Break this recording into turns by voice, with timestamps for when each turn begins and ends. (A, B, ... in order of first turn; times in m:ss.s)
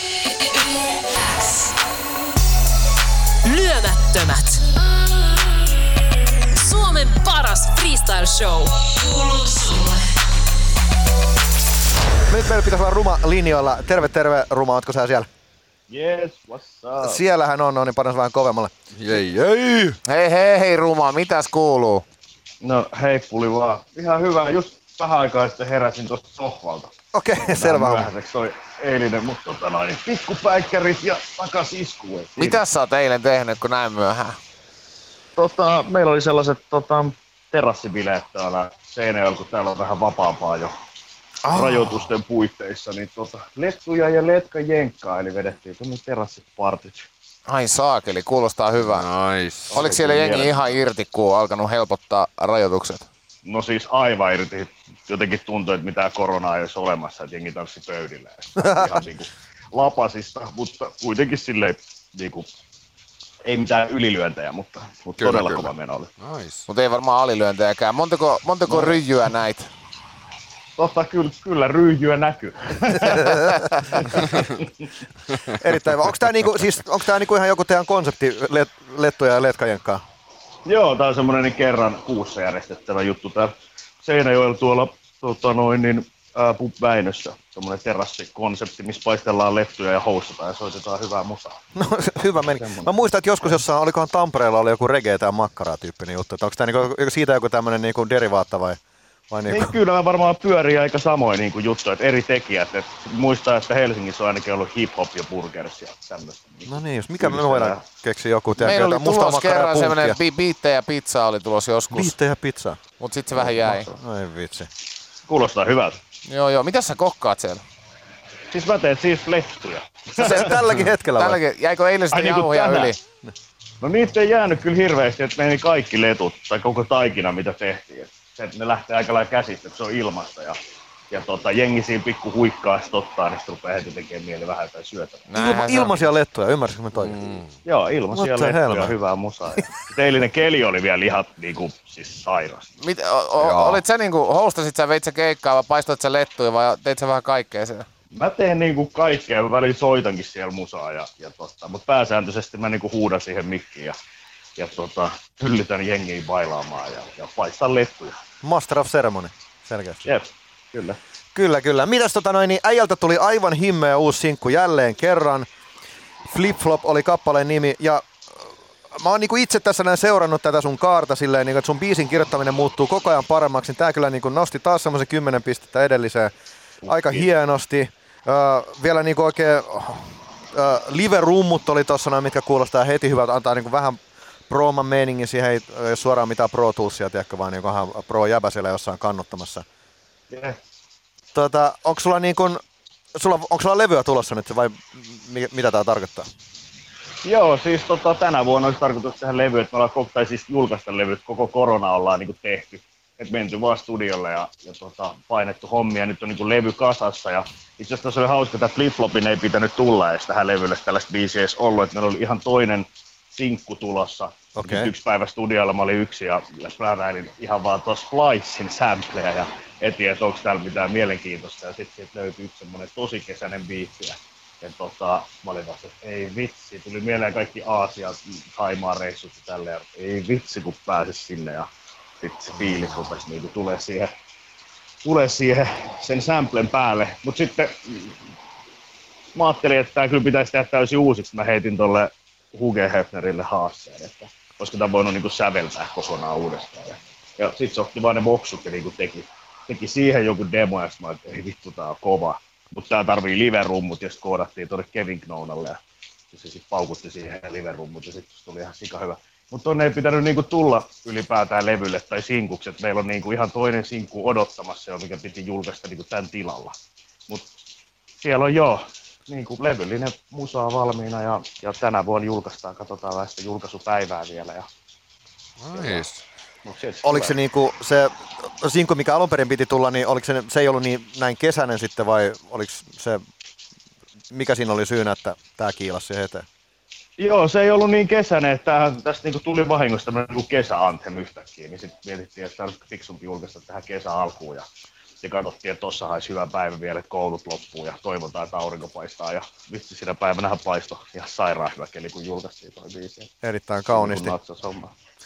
0:03.4-0:04.7 A
0:06.6-0:10.0 A
0:12.3-0:15.3 B
0:15.9-0:17.2 C
0:17.0-0:18.7 B
0:19.0-0:20.0 D
0:20.1-0:22.0 E
0:22.6-0:32.6 C
0:27.1-0:28.1 B
0:32.4-0:34.4 E
0:35.4-0:40.7 C
0:41.5-0:42.1 D
0:41.5-0:47.1 C
0:47.5-0:49.1 E
0:48.8-0:49.8 D
0:49.7-0:50.6 C
0:49.7-0:53.1 E
0:53.4-1:02.5 C
1:03.5-1:06.1 C
1:05.2-1:06.7 D
1:06.7-1:09.7 E
1:08.7-1:09.0 C
1:10.8-1:13.4 C
1:13.0-1:13.6 B
1:13.9-1:14.7 C
1:15.5-1:20.0 B
1:20.7-1:23.5 C
1:24.0-1:31.6 C
1:31.8-1:38.8 B
1:32.5-1:33.6 C
1:39.3-1:39.8 B
1:39.5-1:47.8 C
1:46.7-1:50.2 B
1:48.6-1:52.2 E
1:51.9-1:52.8 B
1:53.0-1:53.9 E
1:53.4-1:54.7 B
1:55.3-1:56.0 C
1:56.3-1:57.6 E
1:58.5-2:00.6 C
2:00.2-2:01.4 B
2:01.1-2:03.0 E
2:02.1-2:03.0 C
2:03.8-2:10.6 C
2:11.1-2:15.3 C
2:15.3-2:16.1 E
2:15.4-2:17.2 B
2:17.0-2:17.5 D
2:17.6-2:22.7 C
2:18.1-2:19.0 B
2:22.8-2:27.9 E
2:23.4-2:23.8 D
2:28.1-2:33.9 C
2:34.6-2:38.2 C
2:38.4-2:40.0 B
2:40.0-2:41.0 C
2:41.3-2:45.5 B
2:46.2-2:56.3 B
2:56.8-2:57.3 C
2:56.9-3:09.6 B
3:10.3-3:10.6 C
3:11.3-3:12.6 B
3:13.2-3:16.3 B
3:17.2-3:51.7 C
3:34.6-3:34.9 B
3:52.2-3:54.1 C
3:55.0-3:58.1 C
3:59.4-4:15.8 C
4:16.3-4:26.7 C
4:28.2-4:34.7 C
4:35.6-4:36.2 D
4:35.7-4:36.1 C
4:36.6-4:37.4 C
4:37.0-4:43.2 B
4:44.3-4:46.5 B
4:47.2-4:54.6 C
4:55.2-5:03.3 C
5:03.4-5:04.3 B
5:03.9-5:04.9 C